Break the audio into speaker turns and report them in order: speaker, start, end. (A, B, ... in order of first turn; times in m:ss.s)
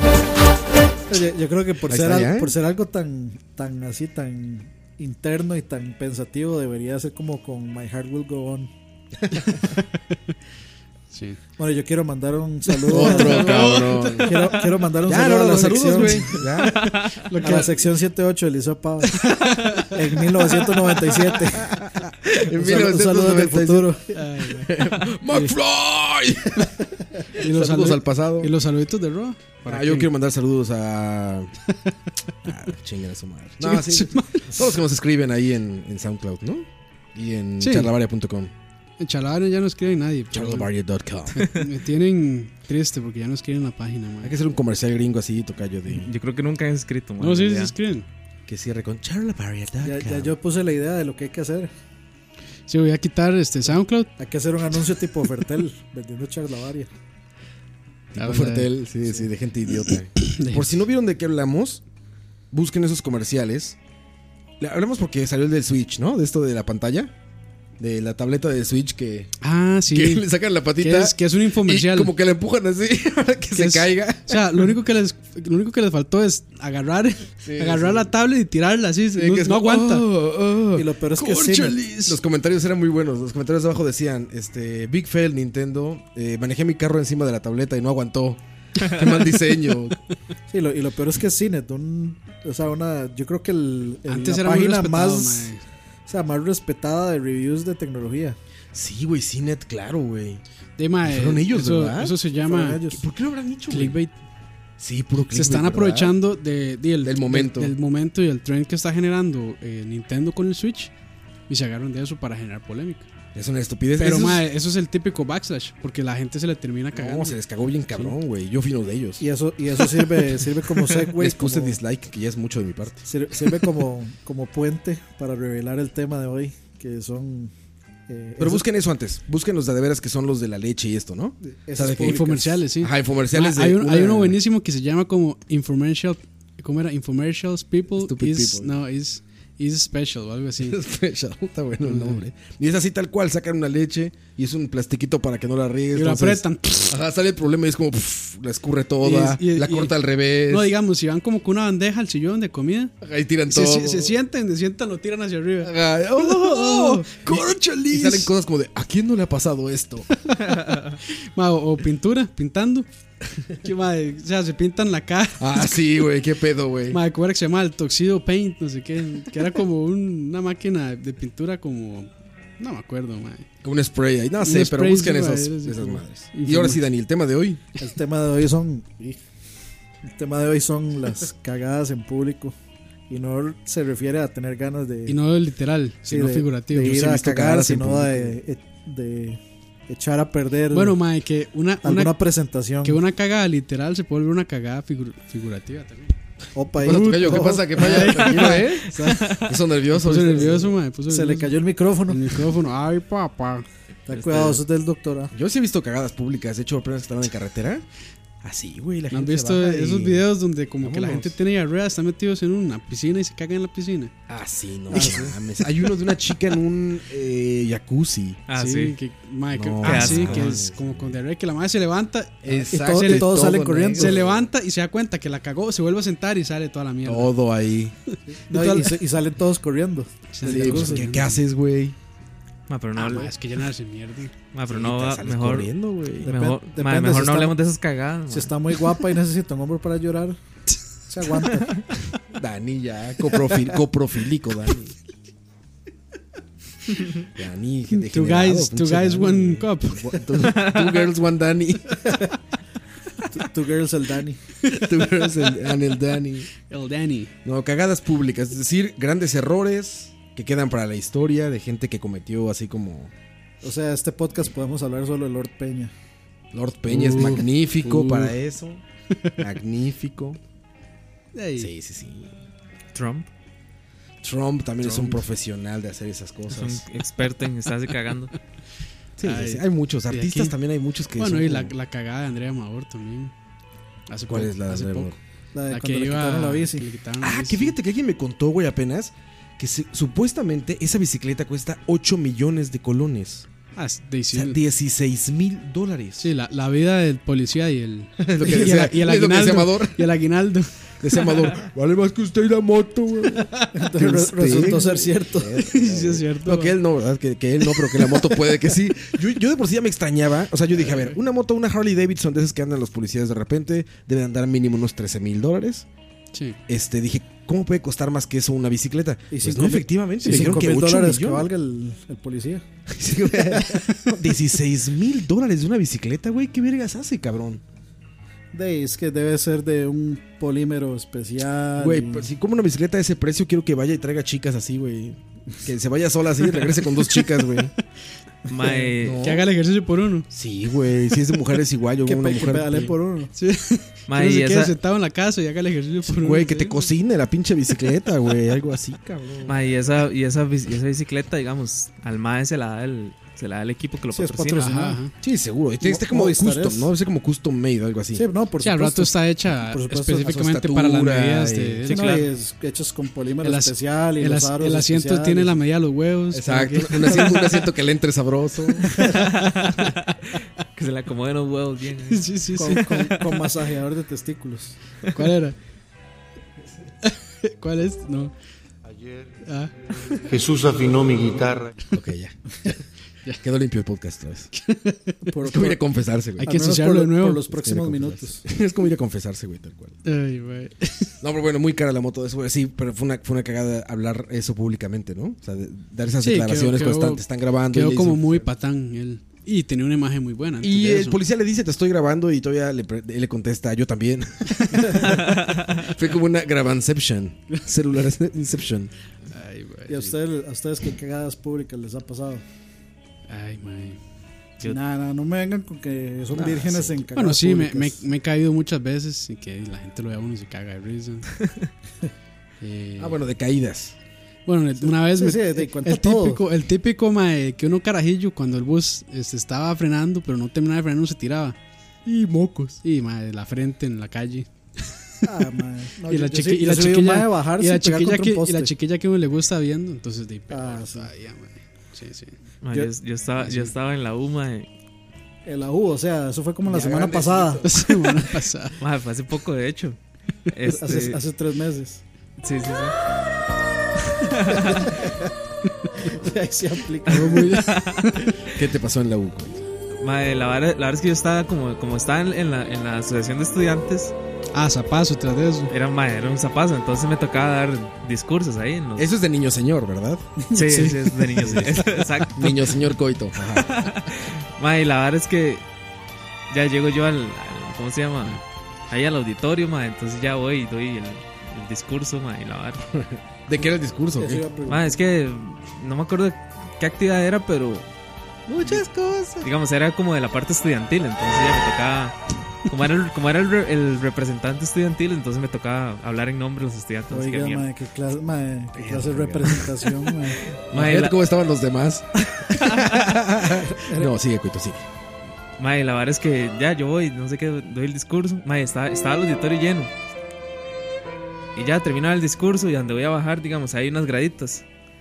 0:01.1-0:08.7 A
0:01.9-0:02.6 B
0:11.1-0:11.4 C
0:11.6-0:16.5 A
0:12.7-0:14.7 C
0:12.9-0:17.0 B
0:15.4-0:17.8 C
0:17.4-0:21.8 A
0:19.1-0:20.0 C
0:21.6-0:26.8 B
0:22.5-0:24.1 A
0:24.1-0:24.7 C
0:27.4-0:30.1 C
0:27.4-0:28.5 B
0:29.7-0:31.5 B
0:32.4-0:38.5 B
0:33.6-0:34.6 C
0:37.6-0:37.9 C
0:39.0-0:40.7 C
0:40.3-0:41.5 B
0:41.4-0:44.4 C
0:44.2-0:46.1 B
0:45.9-0:47.7 D
0:47.2-0:48.1 C
0:48.5-0:50.4 B
0:49.8-0:51.7 A
0:52.7-0:54.1 C
0:54.2-0:56.9 A
0:58.1-1:01.8 B
0:58.2-0:58.7 C
0:59.8-1:00.6 C
1:02.5-1:03.8 B
1:04.6-1:07.1 B
1:07.8-1:09.3 B
1:09.4-1:12.1 C
1:09.9-1:14.8 B
1:13.5-1:20.1 C
1:17.4-1:18.1 B
1:19.1-1:30.0 B
1:20.8-1:21.8 A
1:21.6-1:22.2 C
1:30.5-1:35.5 A
1:34.1-1:35.6 C
1:36.1-1:38.4 A
1:38.7-1:40.4 B
1:40.8-1:42.8 C
1:41.0-1:42.2 B
1:42.4-1:43.0 A
1:42.9-1:44.0 B
1:43.7-1:44.2 C
1:44.8-1:46.2 B
1:45.3-1:50.9 C
1:47.0-1:47.8 B
1:51.5-1:53.1 C
1:53.3-1:54.5 B
1:54.0-1:57.4 C
1:56.9-1:59.2 B
1:59.2-2:01.8 A
2:01.0-2:03.0 B
2:03.1-2:07.5 A
2:08.1-2:08.7 A
2:08.4-2:14.4 B
2:11.4-2:12.6 A
2:11.8-2:20.8 C
2:18.0-2:18.8 B
2:20.6-2:30.7 B
2:21.8-2:22.2 C
2:25.9-2:27.0 C
2:29.0-2:32.9 C
2:33.0-2:34.2 B
2:33.5-2:38.3 C
2:35.6-2:40.1 B
2:41.1-2:42.9 C
2:43.6-2:45.8 C
2:45.4-2:47.0 B
2:46.9-2:53.5 C
2:53.6-2:57.6 B
2:54.4-2:56.8 C
2:57.8-2:59.2 A
3:00.1-3:02.6 A
3:03.1-3:05.2 A
3:05.1-3:07.0 C
3:06.1-3:11.0 A
3:06.8-3:08.4 B
3:10.7-3:12.1 C
3:11.8-3:13.0 A
3:12.8-3:16.1 C
3:16.6-3:19.3 A
3:16.8-3:20.7 B
3:16.8-3:19.2 C
3:19.9-3:21.6 C
3:20.4-3:22.5 A
3:22.1-3:23.6 C
3:24.1-3:25.3 A
3:24.1-3:24.6 D
3:25.3-3:27.8 B
3:28.4-3:30.3 B
3:29.1-3:34.1 C
3:30.8-3:31.4 B
3:34.3-3:38.4 B
3:34.9-3:35.4 A
3:38.5-3:39.0 D
3:38.5-3:47.4 C
3:39.5-3:41.2 B
3:39.8-3:40.6 D
3:42.4-3:44.5 B
3:42.7-3:44.2 A
3:47.0-3:48.0 B
3:48.5-3:51.0 A
3:48.5-3:48.9 B
3:50.3-3:51.4 C
3:50.4-3:52.0 B
3:52.7-3:53.3 D
3:53.0-3:54.3 C
3:54.5-3:55.7 D
3:54.7-3:56.4 B
3:56.2-3:57.6 A
3:56.2-3:58.5 D
3:58.3-4:00.4 A
4:01.1-4:01.9 A
4:02.3-4:05.0 B
4:07.4-4:12.0 B
4:07.9-4:10.2 C
4:10.5-4:11.0 D
4:13.3-4:14.4 A
4:14.7-4:16.5 B
4:16.6-4:17.3 C
4:17.4-4:23.1 B
4:23.6-4:25.9 A
4:26.5-4:28.8 B
4:26.9-4:28.4 C
4:29.4-4:30.4 B
4:31.4-4:31.7 C
4:31.6-4:32.3 B
4:33.0-4:33.3 D
4:34.2-4:36.8 B
4:34.8-4:35.2 C
4:36.5-4:38.3 D
4:39.2-4:41.7 B
4:39.2-4:40.6 C
4:41.2-4:43.3 C
4:44.1-4:45.2 C
4:44.3-4:45.2 B
4:45.5-4:46.8 A
4:45.7-4:47.7 C
4:47.2-4:53.5 B
4:53.8-4:54.6 C
4:54.3-4:56.3 B
4:56.2-5:01.3 C
4:58.2-5:00.1 B
5:01.0-5:15.9 B
5:03.5-5:03.7 C
5:03.8-5:05.5 A
5:05.6-5:06.8 C
5:07.7-5:08.4 C
5:10.8-5:11.2 C
5:16.3-5:16.6 C
5:16.7-5:21.5 B
5:19.3-5:22.6 A
5:22.9-5:27.6 B
5:23.6-5:23.9 A
5:28.5-5:32.2 A
5:31.8-5:37.7 B
5:38.5-5:39.2 D
5:39.0-5:39.5 B
5:39.2-5:40.3 C
5:40.3-5:43.0 B
5:42.0-5:43.3 A
5:43.4-5:46.8 C
5:44.1-5:44.8 D
5:46.1-5:49.7 B
5:49.5-5:54.8 D
5:54.1-5:55.0 A
5:54.6-5:55.1 C
5:55.2-5:58.2 B
5:55.8-5:56.9 A
5:58.1-6:00.3 A
5:58.6-6:02.2 C
6:00.1-6:01.9 B
6:01.9-6:05.6 A
6:02.0-6:02.3 D
6:03.4-6:07.6 C
6:06.3-6:09.0 B
6:09.0-6:09.9 C
6:09.2-6:13.5 D
6:12.1-6:13.1 C
6:12.6-6:14.8 A
6:15.1-6:15.6 C
6:17.0-6:18.3 C
6:18.8-6:19.4 E
6:19.5-6:20.2 C
6:20.2-6:21.8 E
6:21.9-6:22.8 B
6:23.4-6:24.5 B
6:24.5-6:25.2 C
6:25.3-6:25.8 A
6:25.5-6:26.5 B
6:26.4-6:28.4 A
6:26.4-6:27.4 C
6:27.5-6:30.0 B
6:30.0-6:31.1 C
6:31.2-6:38.5 B
6:36.2-6:41.2 C
6:40.6-6:48.9 B
6:45.0-6:45.9 D
6:49.3-6:50.2 C
6:49.9-6:52.4 A
6:53.3-6:54.0 C
6:54.6-6:58.0 A
6:56.3-6:57.1 B
6:57.2-7:01.3 C
7:02.6-7:03.2 C
7:03.0-7:04.0 B
7:04.5-7:11.6 C
7:04.8-7:06.4 A
7:12.0-7:12.8 B
7:12.8-7:15.2 C
7:15.2-7:18.7 A
7:16.1-7:22.4 C
7:20.5-7:21.1 A
7:22.6-7:24.7 D
7:23.4-7:23.7 C
7:25.4-7:27.7 A
7:26.7-7:27.8 B
7:27.6-7:28.8 C
7:28.8-7:30.0 D
7:30.5-7:31.2 D
7:30.7-7:32.0 A
7:32.4-7:33.0 D
7:34.2-7:34.9 D
7:34.5-7:35.2 A
7:36.0-7:37.6 A
7:37.1-7:38.3 C
7:37.2-7:38.2 D
7:38.5-7:39.6 B
7:40.0-7:44.1 D
7:44.5-7:45.7 C
7:45.7-7:49.1 D
7:49.0-7:50.3 B
7:50.5-7:52.0 C
7:50.5-7:52.6 D
7:52.3-7:53.9 B
7:53.6-7:55.6 D
7:56.5-8:02.8 D
8:02.9-8:04.4 B
8:04.2-8:05.0 A
8:04.7-8:07.9 D
8:08.5-8:09.5 B
8:09.4-8:17.7 D
8:17.1-8:20.4 A
8:18.7-8:19.6 B
8:20.7-8:21.2 D
8:20.7-8:24.8 B
8:22.4-8:22.9 D
8:23.6-8:24.1 A
8:25.6-8:29.9 D
8:31.6-8:34.6 D